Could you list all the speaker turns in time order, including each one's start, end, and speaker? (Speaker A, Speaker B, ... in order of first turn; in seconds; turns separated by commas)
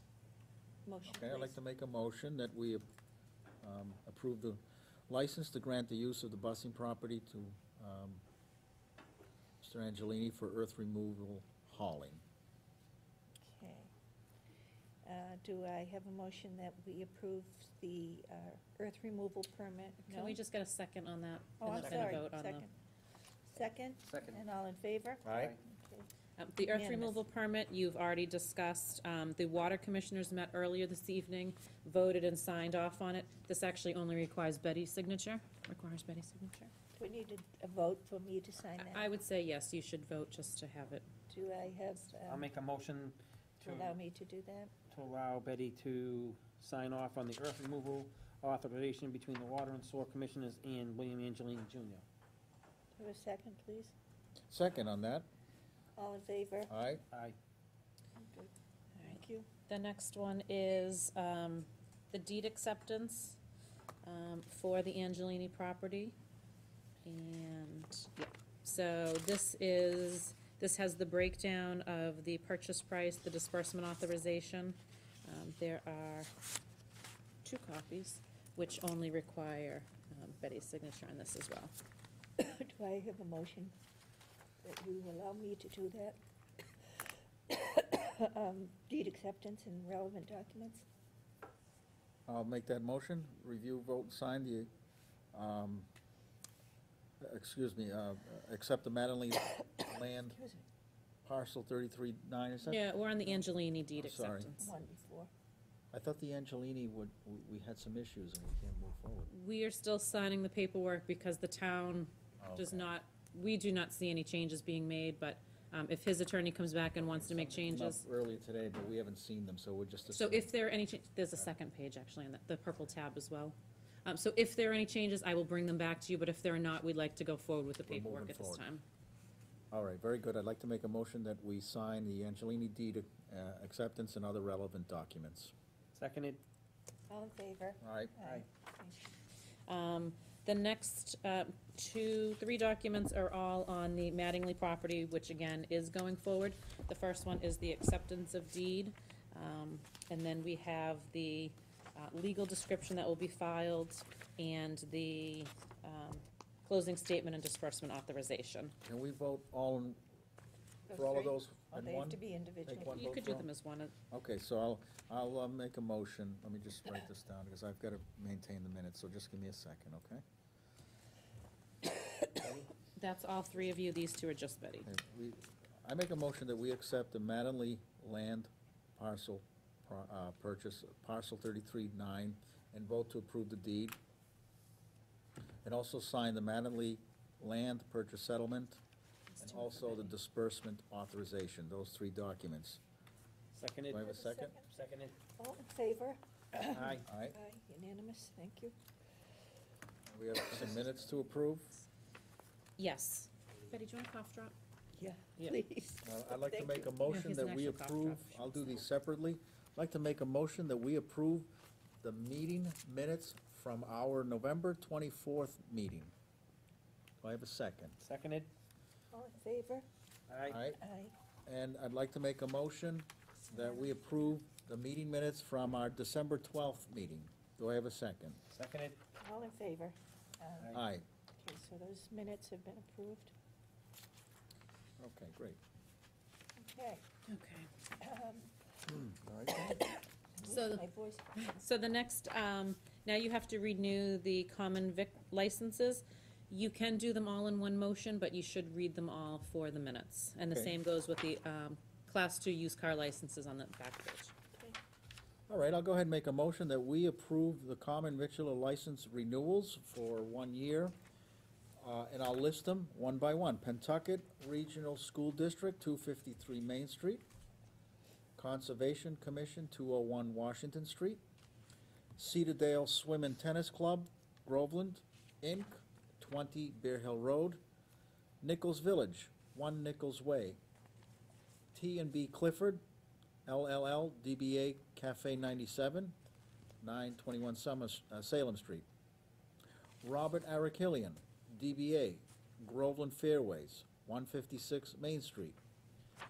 Speaker A: 0.8-1.6, Speaker B: 1.1-2.9, Speaker B: 3.6-8.2, Speaker B: 9.6-12.2, Speaker A: 13.4-13.9, Speaker A: 15.0-20.4, Speaker C: 20.1-22.6, Speaker A: 21.6-22.7, Speaker D: 21.7-22.1, Speaker A: 23.5-26.1, Speaker D: 24.1-24.4, Speaker B: 25.2-25.6, Speaker C: 26.4-36.7, Speaker A: 26.6-27.2, Speaker A: 37.0-39.1, Speaker C: 38.8-41.1, Speaker A: 41.3-42.5, Speaker D: 42.2-44.0, Speaker A: 43.6-44.7, Speaker D: 44.9-52.0, Speaker A: 52.9-53.9, Speaker B: 54.5-55.3, Speaker A: 56.0-56.7, Speaker B: 56.7-57.0, Speaker A: 58.1-59.5, Speaker C: 59.0-63.4, Speaker C: 64.0-66.1, Speaker C: 67.0-76.3, Speaker C: 77.4-81.7, Speaker A: 82.4-83.7, Speaker A: 84.6-86.2, Speaker A: 87.5-90.8, Speaker B: 92.3-94.7, Speaker B: 95.3-95.9, Speaker B: 97.2-100.4, Speaker A: 100.3-100.6, Speaker B: 101.2-103.4, Speaker C: 102.6-104.7, Speaker B: 104.0-104.5, Speaker A: 104.6-105.3, Speaker B: 105.9-109.3, Speaker C: 109.3-118.0, Speaker B: 112.4-112.9, Speaker B: 117.5-120.5, Speaker C: 120.1-128.8, Speaker B: 127.8-128.7, Speaker B: 129.7-135.5, Speaker D: 135.9-136.4, Speaker A: 137.1-139.1, Speaker B: 137.8-138.1, Speaker C: 139.7-158.7, Speaker B: 158.8-160.0, Speaker A: 160.9-163.1, Speaker B: 160.9-163.5, Speaker C: 162.8-163.9, Speaker B: 164.1-170.2, Speaker C: 172.9-174.9, Speaker B: 174.8-184.0, Speaker B: 185.6-188.8, Speaker C: 189.3-190.0, Speaker B: 189.4-192.8, Speaker D: 193.5-194.2, Speaker B: 193.9-194.5, Speaker A: 194.1-194.8, Speaker D: 194.7-195.2, Speaker A: 195.4-198.7, Speaker D: 196.5-197.1, Speaker B: 197.0-197.3, Speaker B: 200.1-201.8, Speaker C: 202.8-204.5, Speaker A: 204.9-206.9, Speaker B: 206.0-211.5, Speaker C: 207.0-208.8, Speaker B: 212.0-216.1, Speaker B: 217.2-218.0, Speaker D: 218.0-218.5, Speaker A: 219.1-219.8, Speaker D: 220.3-220.6, Speaker B: 220.5-220.8, Speaker A: 220.7-221.1, Speaker B: 221.4-228.4, Speaker D: 228.5-229.0, Speaker A: 229.2-230.7, Speaker B: 230.7-231.0, Speaker A: 231.4-233.3, Speaker B: 235.0-235.6, Speaker A: 236.6-237.0, Speaker C: 237.3-237.7, Speaker A: 238.0-238.5, Speaker B: 238.9-239.7, Speaker A: 239.5-241.3, Speaker C: 240.4-254.3, Speaker B: 250.5-250.7, Speaker B: 255.5-260.9, Speaker B: 261.8-267.2, Speaker B: 268.4-271.2, Speaker B: 272.2-277.6, Speaker B: 278.4-280.6, Speaker B: 281.7-282.8, Speaker B: 283.4-286.1, Speaker B: 286.8-288.9, Speaker B: 290.0-295.6